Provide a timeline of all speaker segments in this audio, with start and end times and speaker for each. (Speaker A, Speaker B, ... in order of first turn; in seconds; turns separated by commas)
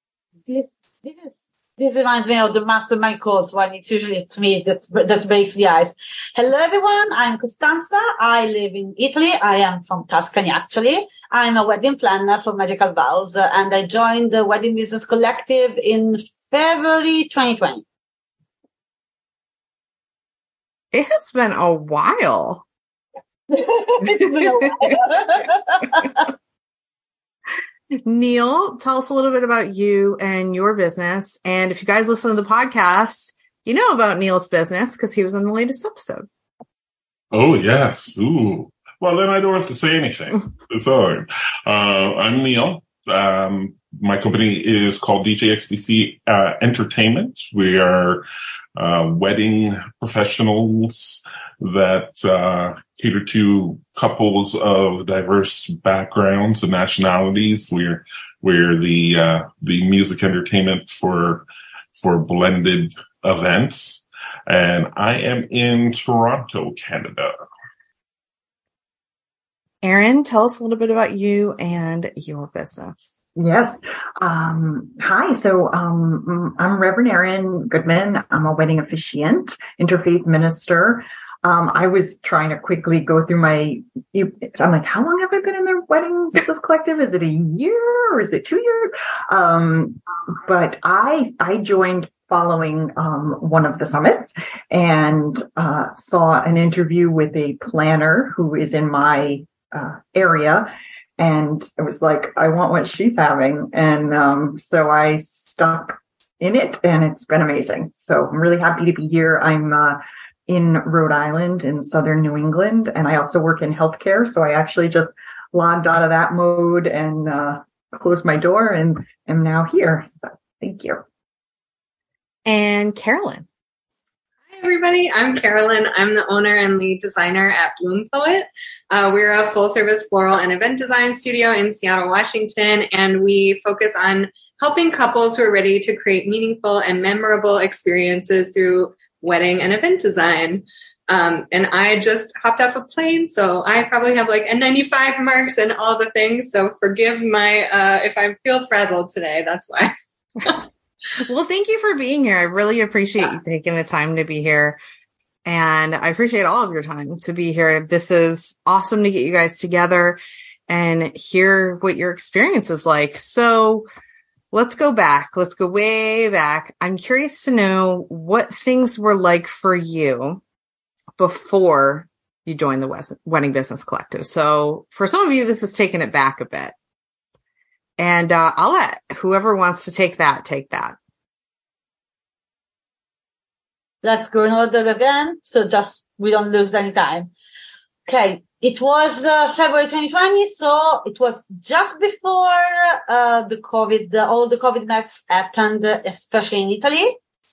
Speaker A: 0.5-17.8, Speaker B: 20.9-22.6, Speaker A: 23.5-26.3, Speaker B: 28.0-36.3, Speaker C: 37.3-48.2, Speaker C: 48.8-67.3, Speaker B: 69.8-73.2, Speaker D: 73.4-121.0, Speaker B: 122.5-123.5, Speaker E: 124.5-150.7, Speaker B: 151.2-154.8, Speaker B: 155.5-163.9, Speaker B: 164.5-170.4, Speaker B: 171.2-176.8, Speaker B: 178.0-181.0, Speaker A: 184.0-187.3, Speaker A: 188.1-197.2